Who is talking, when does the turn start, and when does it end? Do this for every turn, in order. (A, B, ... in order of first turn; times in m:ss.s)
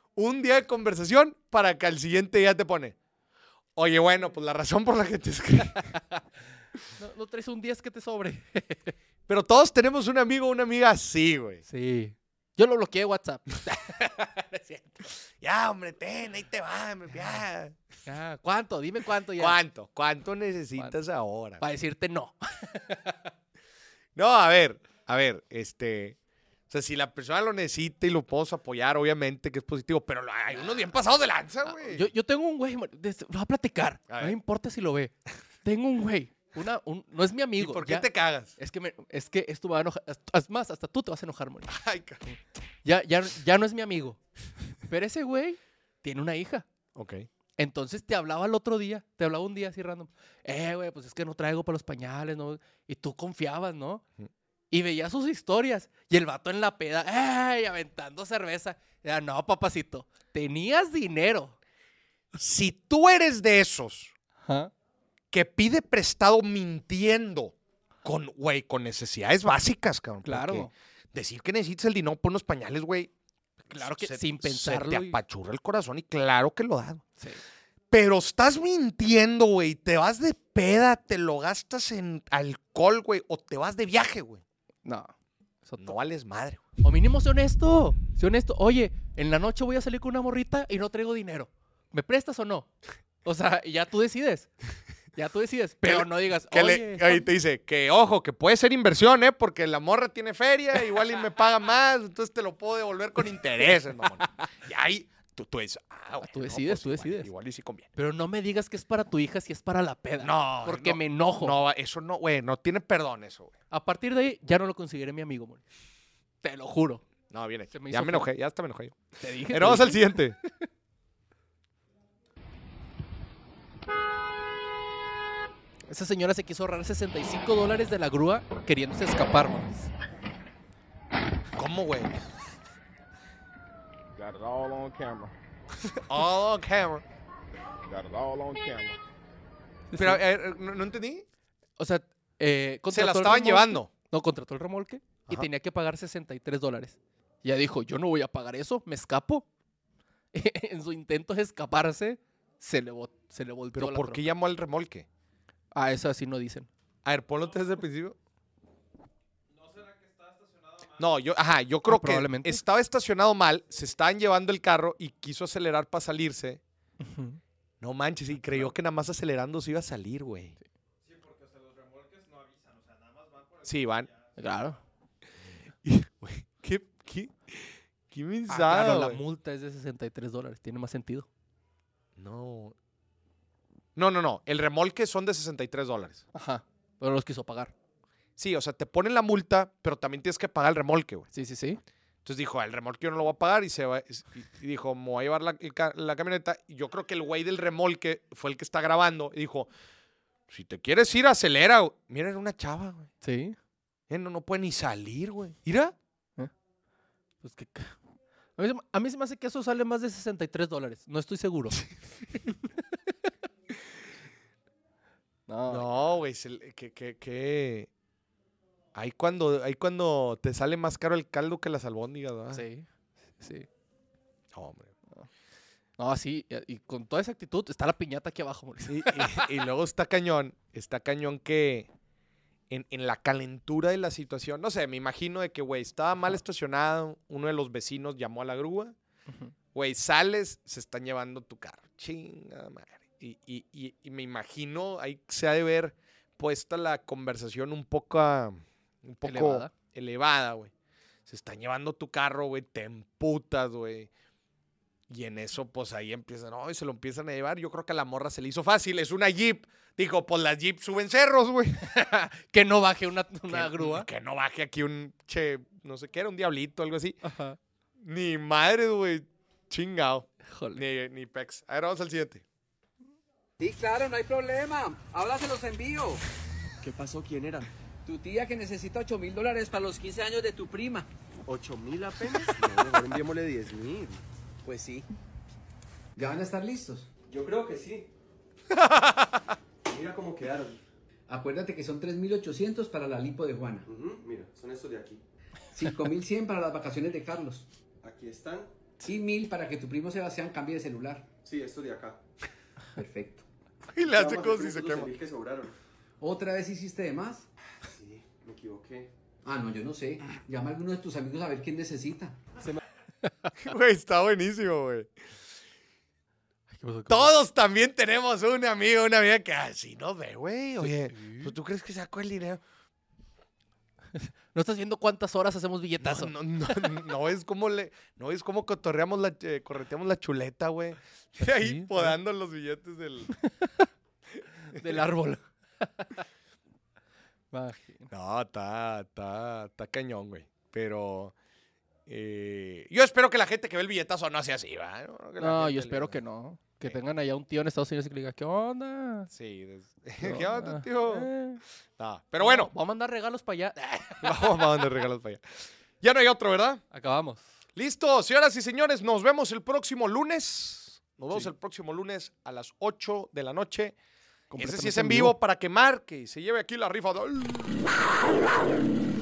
0:00.2-0:03.0 A
0:03.8-0:05.8 A
0:05.9-0:06.2 B
0:07.0-0:08.9 B
0:09.3-0:11.6 A
0:11.6-0:14.0 B
0:14.7-0:17.8 A
0:18.0-0:19.6 B
0:19.4-0:21.6 A
0:21.6-0:23.3 B
0:24.2-0:26.2 A
0:26.7-0:32.1 A
0:30.5-0:30.8 B
0:31.6-0:41.7 B
0:34.1-0:34.4 A
0:37.6-0:38.5 A
0:41.7-0:42.2 A
0:42.8-0:44.2 B
0:44.9-0:46.7 B
0:46.9-0:47.3 A
0:47.6-0:54.0 B
0:54.7-1:01.6 B
1:02.3-1:04.1 A
1:04.4-1:04.7 B
1:05.3-1:13.1 A
1:10.2-1:10.7 B
1:13.6-1:15.2 B
1:13.7-1:17.0 A
1:17.9-1:24.4 A
1:24.8-1:25.1 B
1:25.6-1:26.0 B
1:25.8-1:26.6 A
1:26.8-1:32.7 B
1:33.2-1:34.5 B
1:35.1-1:37.3 B
1:35.8-1:47.9 A
1:43.6-1:44.4 B
1:46.2-1:47.3 B
1:48.0-1:51.6 B
1:50.2-1:53.5 A
1:53.7-1:55.6 B
1:56.4-1:57.0 B
1:57.3-2:00.4 A
1:57.7-1:58.3 B
1:59.2-2:00.6 B
2:05.9-2:09.9 B
2:11.6-2:12.2 A
2:14.2-2:15.3 C
2:15.9-2:17.0 A
2:17.9-2:19.0 C
2:19.9-2:20.2 B
2:20.0-2:21.2 A
2:21.8-2:29.4 B
2:22.9-2:23.9 A
2:30.3-2:34.2 B
2:33.7-2:35.1 A
2:35.7-2:36.7 B
2:37.0-2:38.2 A
2:41.0-2:46.6 A
2:41.8-2:42.6 B
2:47.0-2:47.4 B
2:47.8-2:50.5 A
2:53.6-2:54.1 A
2:54.4-2:54.8 B
2:55.8-2:59.2 A
2:58.5-3:01.3 B
3:02.2-3:02.7 A
3:04.0-3:06.2 A
3:06.3-3:07.7 B
3:08.4-3:11.3 A
3:11.3-3:11.8 B
3:12.2-3:19.7 A
3:20.5-3:23.1 A
3:23.2-3:23.6 B
3:24.1-3:26.0 A
3:27.4-3:28.0 B
3:28.6-3:32.9 B
3:35.5-3:35.9 B
3:35.7-3:37.9 A
3:38.9-3:42.6 A
3:42.5-3:42.9 B
3:43.4-3:43.7 B
3:44.5-3:44.9 A
3:46.0-3:49.6 B
3:48.9-3:51.9 A
3:52.7-3:58.9 A
3:59.3-3:59.5 B
3:59.7-4:10.7 A
4:09.2-4:09.7 B
4:11.3-4:14.1 A
4:15.1-4:21.9 A
4:21.8-4:24.1 B
4:23.5-4:27.2 A
4:27.2-4:27.6 B
4:28.0-4:32.4 A
4:30.5-4:30.8 B
4:33.6-4:36.2 D
4:36.8-4:37.7 E
4:38.0-4:41.1 D
4:41.4-4:44.2 E
4:44.6-4:45.0 D
4:46.2-4:47.1 D
4:47.3-4:48.1 E
4:48.7-4:49.3 A
4:49.8-4:50.8 E
4:51.3-4:53.9 D
4:53.9-4:55.2 E
4:55.7-4:57.7 D
4:58.0-4:58.7 E
4:59.0-5:01.3 D
5:01.4-5:02.2 E
5:03.0-5:03.4 D
5:03.9-5:05.1 A
5:04.0-5:05.8 E
5:06.2-5:07.5 D
5:07.8-5:09.1 E
5:09.4-5:12.4 D
5:13.2-5:13.5 B
5:13.6-5:15.1 A
5:16.7-5:17.3 B
5:17.1-5:22.6 A
5:20.8-5:21.5 B
5:24.1-5:27.0 B
5:26.0-5:33.3 A
5:31.4-5:32.2 B
5:33.3-5:33.9 B
5:34.7-5:36.2 B
5:37.5-5:38.1 B
5:38.1-5:41.3 A
5:42.1-5:46.2 A
5:45.4-5:49.3 B
5:49.3-5:51.3 A
5:50.2-5:51.6 B
5:52.0-5:52.7 A
5:52.4-5:54.9 B
5:54.2-5:55.4 A
5:56.0-5:56.8 A
5:56.9-5:57.4 B
5:57.8-6:04.0 A
6:04.5-6:05.4 B
6:04.6-6:08.1 A